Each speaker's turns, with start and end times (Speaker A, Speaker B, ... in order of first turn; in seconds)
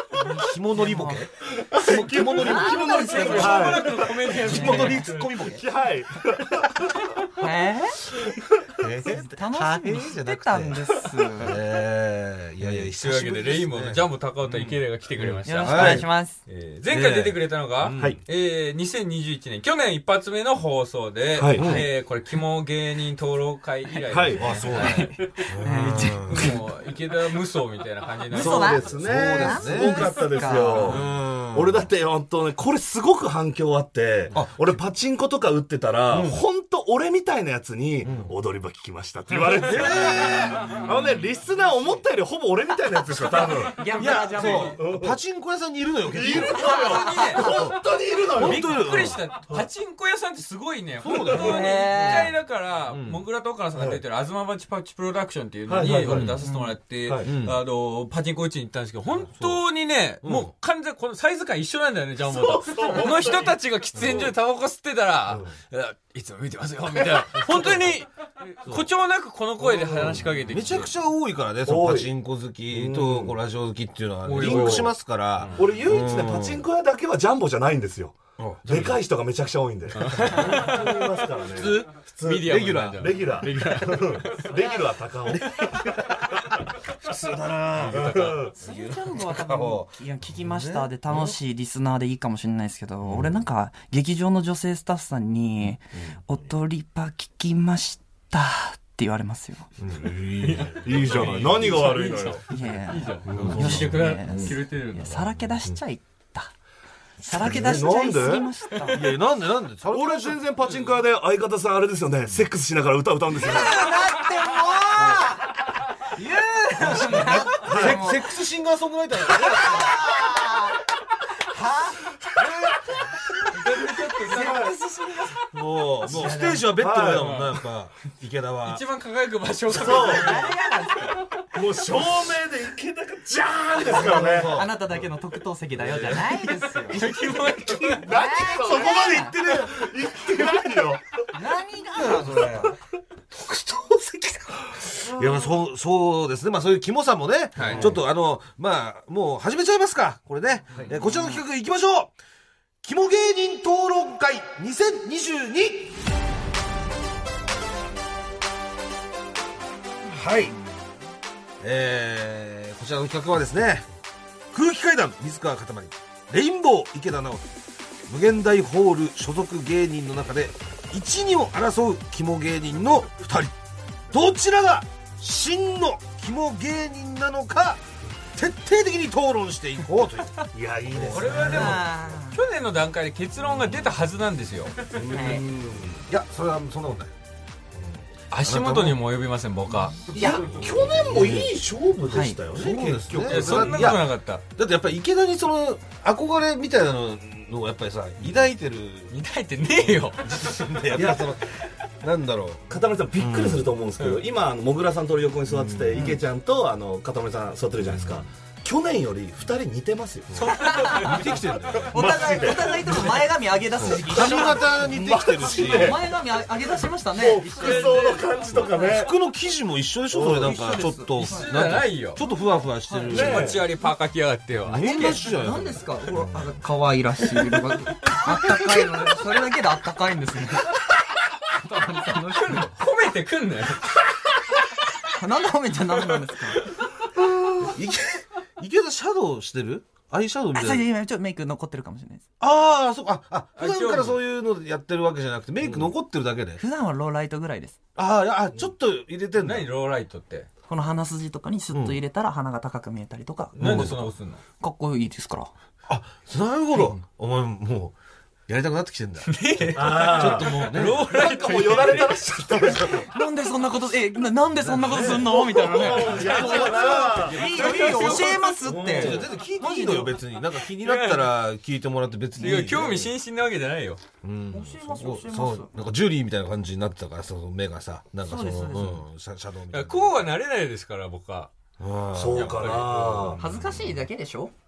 Speaker A: 0.1-5.6, 8.8-16.1, 16.9-18.2, 21.5-21.9, 24.4-26.6, 28.9-31.9, 34.3-34.7, 36.1-36.4, 38.0-38.3, 39.5-40.9, 43.9-46.7, 47.4-47.8, 48.3-49.2, 51.0-52.3, 52.9-53.2, 56.1-56.4, 57.2-57.6, 59.2-59.6, 60.2-60.5, 64.0-64.3, 70.1-76.7, 78.4-79.0, 80.2-83.3, 83.8-84.2, 85.3-91.4, 93.0-93.4, 99.8-101.6, 103.3-104.0, 107.2-108.0, 108.9-110.4, 116.7-120.1, 125.5-128.8, 133.8-135.0, 135.8-136.3, 138.4-140.6, 141.9-142.8, 143.3-152.1, 152.8-156.0, 160.1-160.5, 161.6-163.9, 164.5-167.5, 168.1-173.5, 174.1-177.8, 178.4-181.9, 185.0-187.2, 187.7-189.0, 190.5-191.5, 192.5-199.2, 199.8-203.7, 205.5-206.2, 211.0-212.7, 213.8-216.0, 218.8-223.6, 224.7-226.6, 237.6-240.9, 242.4-246.6, 248.0-249.7, 251.7-252.0, 253.6-254.1, 255.9-257.9, 258.5-261.1, 264.6-273.1, 274.2-280.2, 281.8-284.0
Speaker B: 0.7-1.3, 1.9-5.2, 7.3-8.0, 9.0-11.6, 15.4-16.4, 25.6-26.6, 28.3-31.0, 43.6-44.8, 46.4-47.7, 51.3-52.3, 56.5-56.7, 88.5-99.7, 102.5-106.5, 107.2-109.1, 113.3-115.5, 116.0-118.3, 119.3-120.8, 121.4-126.7, 129.8-131.3, 133.8-137.2, 138.0-139.4, 141.3-142.7, 181.4-182.4, 185.1-185.4, 190.2-190.6, 192.1-192.4, 210.5-211.1, 211.9-219.1, 220.4-221.5, 222.9-223.3, 224.8-230.8, 231.5-232.7, 235.1-236.7, 240.5-242.2, 246.6-247.8, 250.7-253.9, 254.6-255.5, 262.8-270.2, 274.5-275.7, 278.2-279.0, 283.4-284.5
Speaker C: 1.6-4.3, 5.2-7.1, 21.4-21.8, 24.1-25.1, 28.3-45.2, 46.1-48.8, 53.8-54.0, 55.7-56.4, 62.2-64.3, 69.6-70.4, 71.7-72.1, 72.7-73.4, 74.3-74.9, 75.6-85.8, 87.9-88.5, 100.8-102.5, 103.3-104.5, 107.3-108.5, 109.9-114.0, 115.0-115.2, 117.5-118.1, 124.3-124.8, 126.6-127.4, 129.7-130.3, 131.5-134.6, 135.8-136.3, 137.7-141.2, 147.6-148.0, 180.5-181.8, 184.9-186.0, 190.1-194.0, 200.9-201.3, 202.7-210.5, 211.7-216.0, 217.1-219.1, 220.1-220.6, 223.1-223.7, 245.6-245.9, 253.6-253.9, 259.8-263.1, 265.0-267.5, 268.6-269.3, 282.1-283.4
Speaker D: 2.9-5.3, 12.7-25.5, 26.2-28.9, 30.9-31.1, 46.7-47.5, 48.4-70.9, 74.2-75.7, 79.9-80.9, 82.2-84.5, 87.8-88.5, 100.2-105.3, 110.6-111.0, 123.5-124.7, 127.2-127.6, 128.6-131.2, 136.9-138.1, 147.6-147.9, 181.1-184.8, 188.3-190.0, 193.2-194.4, 199.1-200.7, 210.3-211.5, 217.4-218.6, 221.2-222.2, 223.1-225.0, 232.3-233.9, 243.6-244.2, 249.4-250.5, 253.6-254.4, 259.2-262.9, 267.3-268.6, 270.8-271.3, 272.4-274.0, 279.7-281.5, 282.3-283.3